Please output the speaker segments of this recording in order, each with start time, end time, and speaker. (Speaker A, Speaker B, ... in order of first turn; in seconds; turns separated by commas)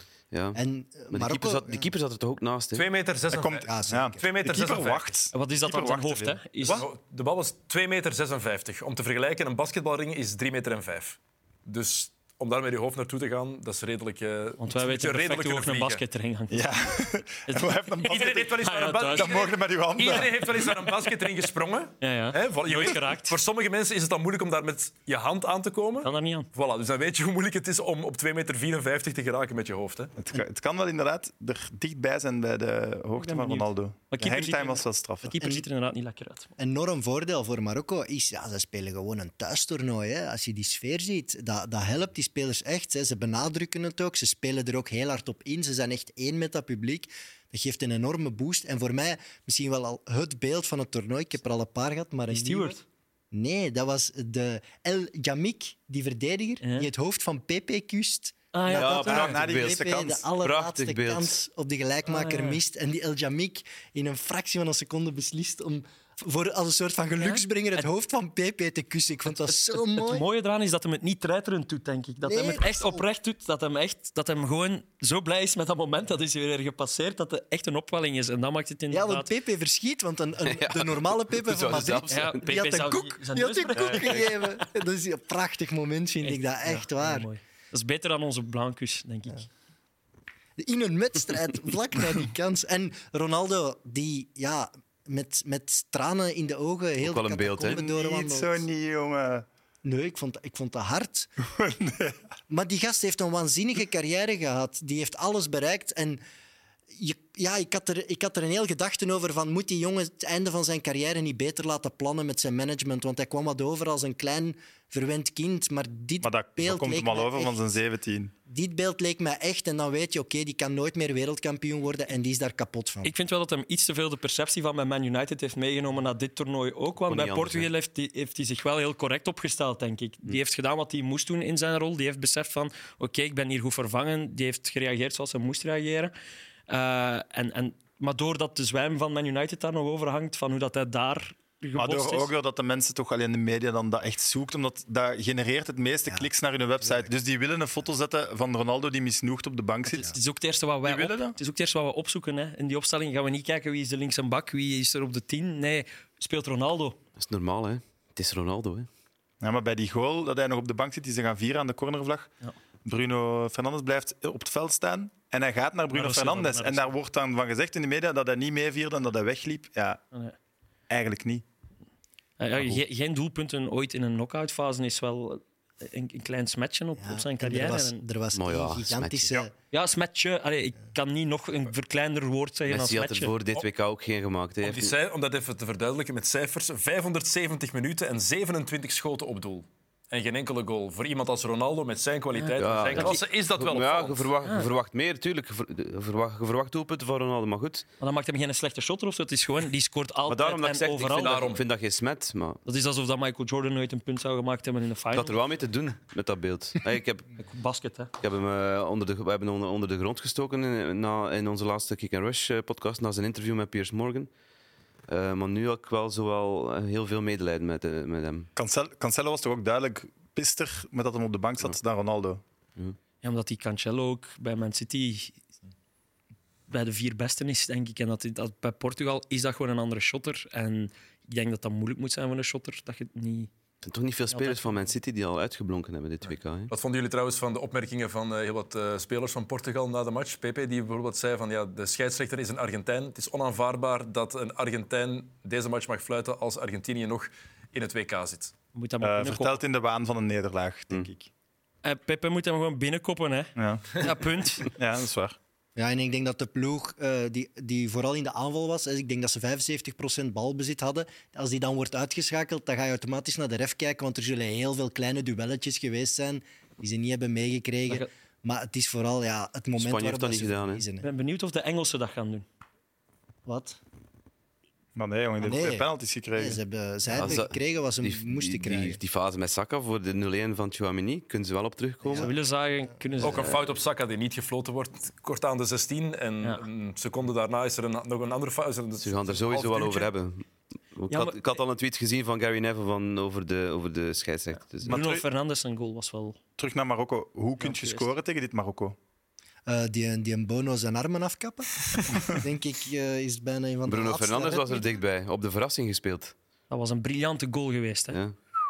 Speaker A: 0.3-0.6, Speaker B: 0.5-1.9, Speaker A: 1.1-2.9, Speaker C: 2.7-5.2, Speaker D: 3.3-6.9, Speaker B: 3.4-4.2, Speaker E: 5.3-6.8, Speaker C: 6.6-16.0, Speaker E: 14.6-16.7, Speaker D: 16.5-18.6, Speaker E: 17.5-19.4, Speaker C: 18.0-30.1, Speaker D: 19.1-20.7, Speaker E: 22.0-23.4, Speaker E: 26.0-26.5, Speaker D: 30.2-35.5, Speaker E: 33.2-36.5, Speaker B: 36.6-52.8, Speaker E: 52.3-52.8, Speaker B: 53.3-70.2, Speaker E: 56.6-56.9, Speaker E: 58.5-59.4, Speaker A: 58.7-61.4, Speaker D: 59.0-60.2, Speaker E: 62.1-62.6, Speaker E: 67.2-67.8, Speaker E: 69.7-79.3, Speaker B: 72.2-73.0, Speaker B: 78.9-87.3, Speaker A: 80.4-82.5, Speaker E: 82.1-84.6, Speaker A: 83.7-84.4, Speaker E: 86.2-89.5, Speaker B: 90.6-98.7, Speaker A: 97.0-97.8, Speaker D: 97.7-99.4, Speaker B: 99.8-101.3, Speaker D: 101.5-102.2, Speaker B: 102.5-106.2, Speaker B: 106.9-117.6, Speaker D: 116.2-118.3, Speaker B: 118.5-123.1, Speaker E: 123.0-136.1, Speaker A: 127.1-127.7, Speaker E: 136.7-142.3, Speaker D: 141.8-150.1, Speaker E: 149.8-157.0, Speaker D: 150.8-151.3, Speaker A: 157.2-158.9, Speaker D: 159.4-162.3, Speaker D: 162.8-170.0, Speaker E: 165.9-166.9, Speaker D: 170.9-171.4, Speaker E: 172.4-178.0, Speaker B: 177.0-179.5, Speaker A: 178.3-179.3, Speaker E: 179.7-183.3, Speaker A: 182.7-184.9, Speaker C: 184.6-194.3, Speaker E: 192.3-193.2, Speaker A: 192.6-197.8, Speaker E: 198.0-201.5, Speaker A: 200.3-202.6, Speaker C: 201.1-201.6, Speaker E: 202.6-205.4, Speaker A: 205.1-207.3, Speaker E: 207.4-208.1, Speaker A: 208.2-214.3, Speaker A: 215.1-218.5, Speaker D: 218.6-222.4, Speaker E: 223.2-225.4, Speaker E: 226.7-233.5, Speaker A: 233.8-236.7, Speaker E: 234.3-234.9, Speaker C: 236.7-248.5, Speaker E: 248.7-249.6, Speaker D: 249.0-251.3, Speaker E: 251.8-254.7, Speaker D: 253.6-254.1, Speaker D: 254.7-255.4, Speaker B: 255.8-271.1, Speaker A: 269.8-270.8, Speaker E: 271.0-272.4, Speaker B: 273.4-273.8, Speaker D: 274.9-276.6, Speaker B: 275.4-279.0, Speaker A: 277.1-282.3, Speaker B: 282.0-282.3, Speaker E: 282.2-283.5, Speaker C: 283.2-290.1, Speaker A: 283.3-283.6, Speaker A: 289.0-295.0, Speaker E: 291.1-291.6, Speaker E: 294.6-296.4, Speaker D: 294.9-295.2, Speaker D: 296.6-298.9, Speaker E: 297.6-298.1, Speaker B: 299.6-304.9, Speaker A: 303.9-306.3, Speaker E: 306.7-308.2